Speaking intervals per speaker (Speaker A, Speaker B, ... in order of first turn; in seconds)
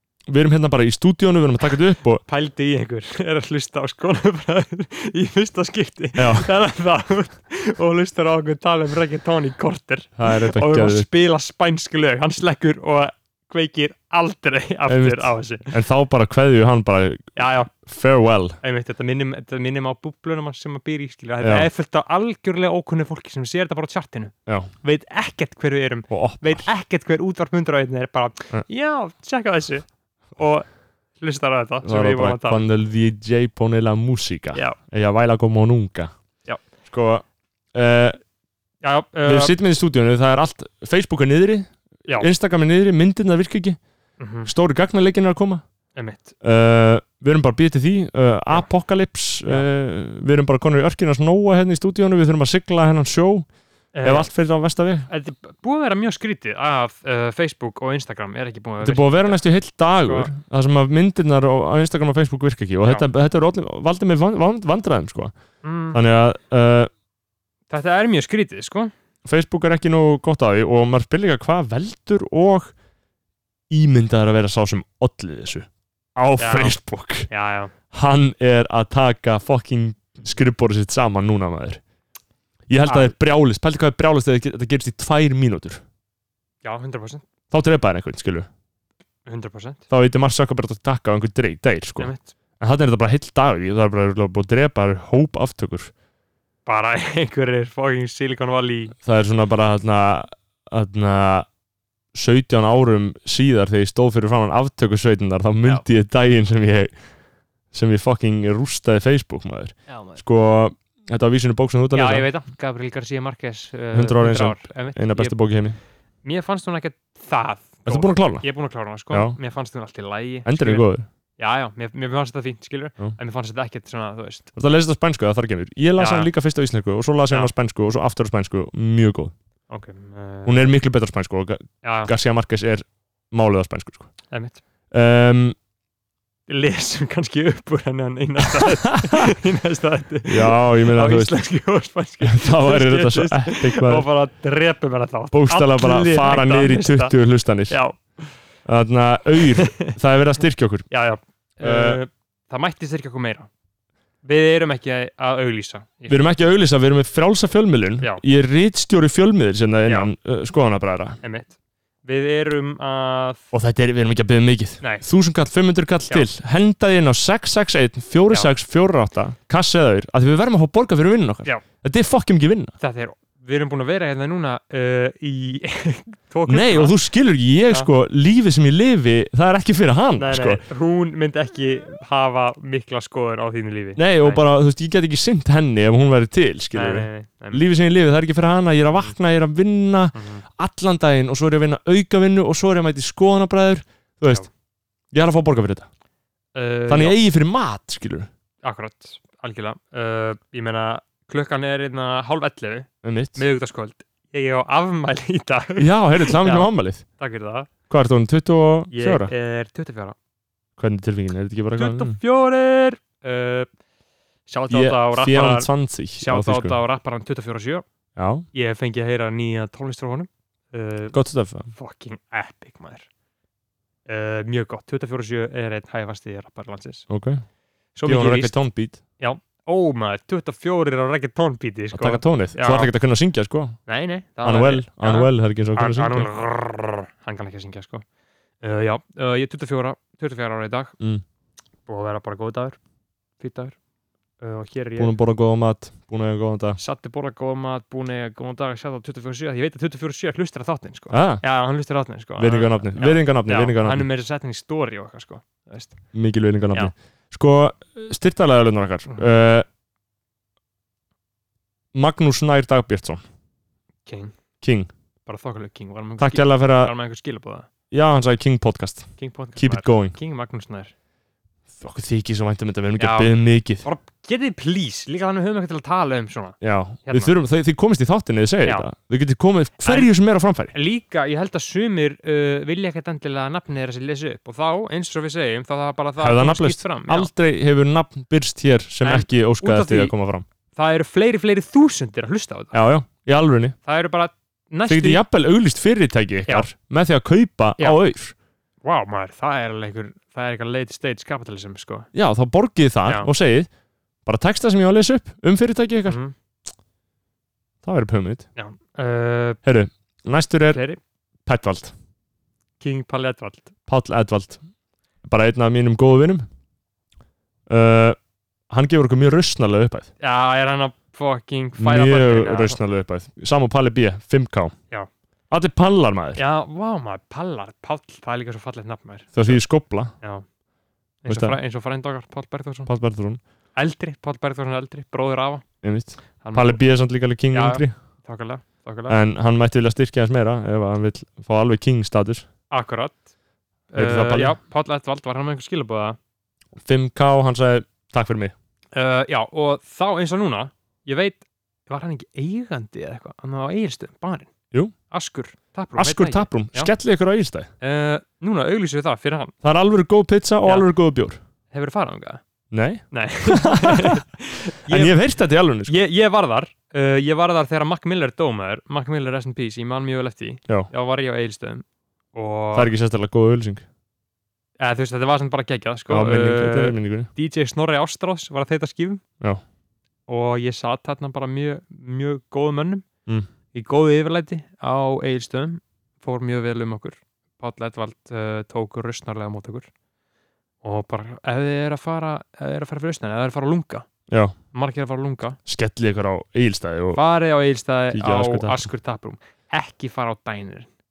Speaker A: 0.3-2.2, 6.2-6.5, 10.2-11.1, 14.9-17.3, 17.8-18.6, 21.4-21.7, 26.1-26.6, 31.8-36.1, 36.8-38.2, 39.2-43.8, 44.4-45.6, 46.4-53.5, 54.0-55.1, 58.8-65.3, 65.9-66.9, 69.2-72.7, 73.7-77.3, 77.9-81.8, 82.7-85.8, 87.5-88.5, 89.9-95.9, 99.0-101.5, 102.1-107.0, 107.7-112.3, 113.9-115.8, 117.8-118.5, 119.1-119.3, 120.5-121.1, 124.5-129.3, 130.4-134.1, 134.9-135.6, 140.3-141.3, 142.2-144.0, 145.3-147.8, 148.7-150.8, 151.6-152.0, 156.1-161.2, 163.5-172.7, 176.5-180.6, 184.0-194.4, 195.1-195.9, 196.9-198.3, 203.0-203.4, 205.8-207.0, 207.9-209.3, 210.8-212.2, 214.7-216.8, 218.2-218.4, 221.1-221.7, 227.1-227.4, 228.0-229.0, 231.9-233.8, 234.4-236.3, 245.0-246.8, 251.1-251.4, 252.4-254.1, 256.1-259.6, 261.9-263.2, 264.6-264.9, 266.2-266.9, 267.9-270.1, 271.8-273.8, 276.6-280.7, 286.2-290.4, 292.7-293.8, 294.9-298.3, 302.1-303.7, 304.2-306.2, 307.8-308.4, 309.6-310.8, 311.4-311.9, 313.9-314.6, 315.2-316.5, 317.7-318.2, 318.7-320.1, 321.8-324.7, 325.5-326.4, 329.3-330.1, 331.3-331.6, 332.9-333.4, 335.8-337.9, 339.1-342.5, 343.9-344.5, 346.8-348.5, 356.0-357.7, 359.6-361.4, 362.7-364.2, 364.9-365.9, 372.7-373.8, 376.1-377.3, 395.6-397.2, 398.1-398.9
Speaker B: 2.3-15.7, 17.4-17.8, 18.6-30.6, 31.2-32.6, 38.8-39.5, 44.2-44.5, 45.9-46.3, 53.9-54.3, 55.1-59.4, 60.0-60.3, 65.6-66.0, 67.7-68.9, 76.4-77.7, 82.9-83.1, 86.6-87.2, 89.2-89.8, 92.0-92.3, 96.7-99.0, 109.9-110.2, 111.9-115.6, 116.2-124.5, 126.0-126.3, 129.7-130.7, 131.8-132.1, 134.3-134.6, 136.5-147.1, 147.7-148.3, 149.6-149.9, 150.9-153.5, 154.2-156.2, 161.2-163.4, 172.8-176.9, 180.2-184.4, 186.7-187.6, 190.1-190.4, 196.5-197.2, 198.6-206.7, 207.2-207.7, 208.9-210.1, 211.8-213.7, 214.5-217.8, 218.5-221.1, 221.7-223.1, 224.1-227.1, 227.9-228.6, 229.2-232.9, 233.9-238.0, 238.6-240.9, 241.9-242.8, 243.4-243.7, 244.4-245.1, 246.8-256.0, 264.1-264.3, 265.2-267.7, 269.2-270.9, 273.0-273.3, 273.8-277.3, 279.8-280.1, 280.7-287.3, 289.0-290.1, 290.8-292.8, 293.8-295.2, 298.8-302.1, 306.1-306.3, 308.6-309.6, 310.7-311.0, 312.8-313.7, 320.2-322.8, 326.4-329.6, 330.2-330.4, 331.2-332.9, 333.8-335.7, 336.4-336.8, 337.5-339.2, 342.7-343.3, 343.9-346.2, 348.9-354.5, 355.1-356.9, 357.8-359.5, 361.7-362.4, 363.1-365.2, 365.9-372.9, 374.8-379.2, 380.3-383.0, 383.7-389.9, 390.8-394.1, 394.7-395.6, 397.1-400.9